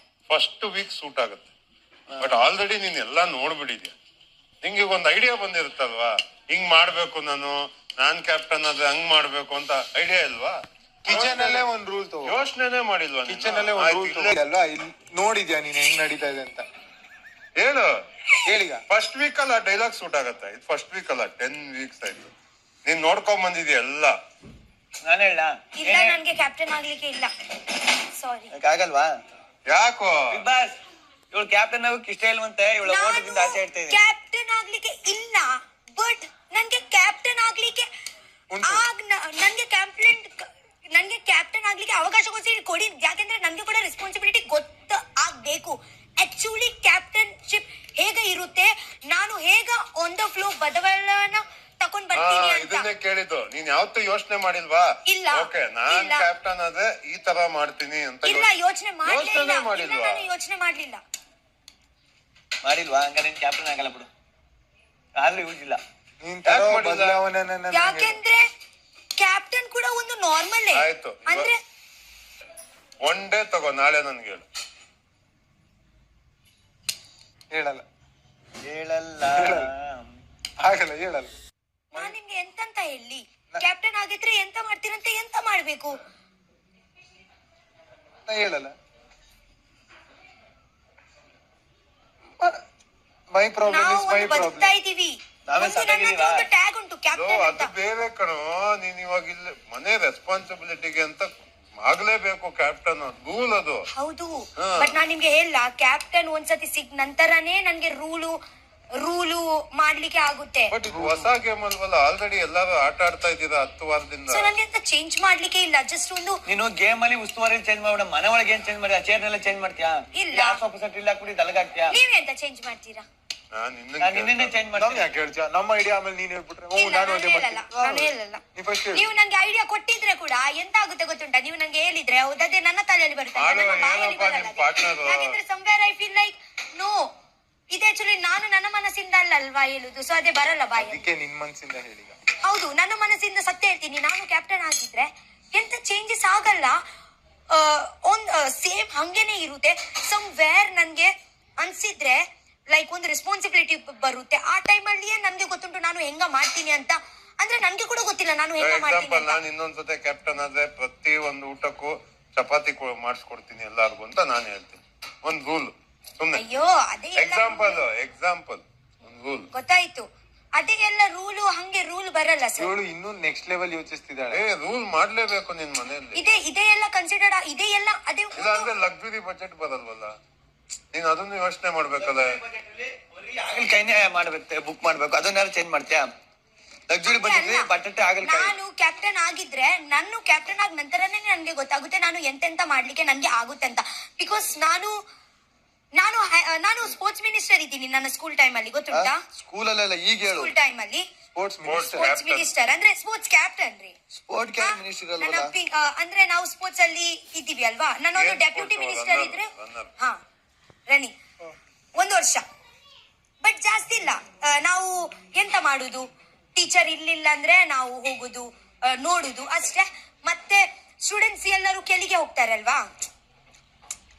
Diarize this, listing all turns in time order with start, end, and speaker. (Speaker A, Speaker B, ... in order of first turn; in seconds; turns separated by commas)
Speaker A: 0.3-1.5, Speaker B: 2.1-2.4, Speaker A: 2.2-3.9, Speaker A: 4.6-11.7, Speaker C: 11.0-12.4, Speaker A: 12.2-14.3, Speaker C: 13.3-16.6, Speaker A: 17.6-17.9, Speaker C: 18.4-18.8, Speaker A: 18.9-22.3, Speaker A: 22.8-24.1, Speaker B: 25.0-26.2, Speaker D: 25.8-27.3, Speaker D: 28.0-28.5, Speaker B: 28.5-29.1, Speaker A: 29.7-30.4, Speaker B: 30.3-30.8, Speaker B: 31.3-34.0, Speaker D: 32.8-37.9, Speaker C: 38.5-38.9, Speaker D: 38.6-52.9, Speaker A: 52.1-58.5, Speaker D: 55.0-56.3, Speaker D: 58.2-61.0, Speaker A: 59.0-60.2, Speaker B: 62.6-64.1, Speaker B: 65.2-65.8, Speaker C: 66.2-68.2, Speaker A: 66.4-67.2, Speaker D: 67.7-68.4, Speaker D: 69.2-71.5, Speaker A: 70.7-71.5, Speaker A: 73.0-74.4, Speaker C: 77.5-77.8, Speaker B: 78.6-80.1, Speaker C: 79.3-79.7, Speaker C: 80.6-81.3, Speaker D: 81.9-86.0, Speaker C: 88.3-88.7, Speaker C: 93.3-94.7, Speaker D: 93.7-97.7, Speaker B: 95.5-96.5, Speaker A: 97.1-103.8, Speaker D: 103.9-108.3, Speaker A: 104.6-104.9, Speaker D: 109.0-110.7, Speaker A: 110.7-114.5, Speaker C: 110.9-111.3, Speaker D: 114.3-116.4, Speaker B: 116.5-122.0, Speaker D: 120.1-120.6, Speaker D: 121.9-123.0, Speaker A: 123.5-124.6, Speaker B: 124.0-125.1, Speaker C: 124.8-129.1, Speaker D: 126.8-137.1, Speaker A: 133.3-135.4, Speaker D: 137.7-141.0, Speaker C: 140.8-142.2, Speaker D: 142.4-146.8, Speaker D: 147.5-159.4, Speaker A: 158.6-166.4, Speaker D: 166.3-167.8, Speaker A: 167.2-169.5, Speaker D: 169.5-172.8, Speaker C: 172.6-174.4, Speaker A: 174.3-176.2, Speaker D: 176.1-178.7, Speaker A: 178.3-180.1, Speaker A: 180.9-182.3, Speaker B: 182.7-186.1, Speaker B: 186.9-188.5, Speaker D: 187.0-187.7, Speaker D: 188.2-194.9, Speaker D: 196.0-199.2, Speaker B: 198.9-200.5, Speaker D: 200.3-201.0, Speaker C: 201.3-202.1, Speaker A: 201.6-202.5, Speaker D: 201.9-203.9, Speaker B: 204.2-205.5, Speaker D: 204.6-210.2, Speaker A: 208.1-209.9, Speaker D: 211.9-212.4, Speaker D: 213.4-222.8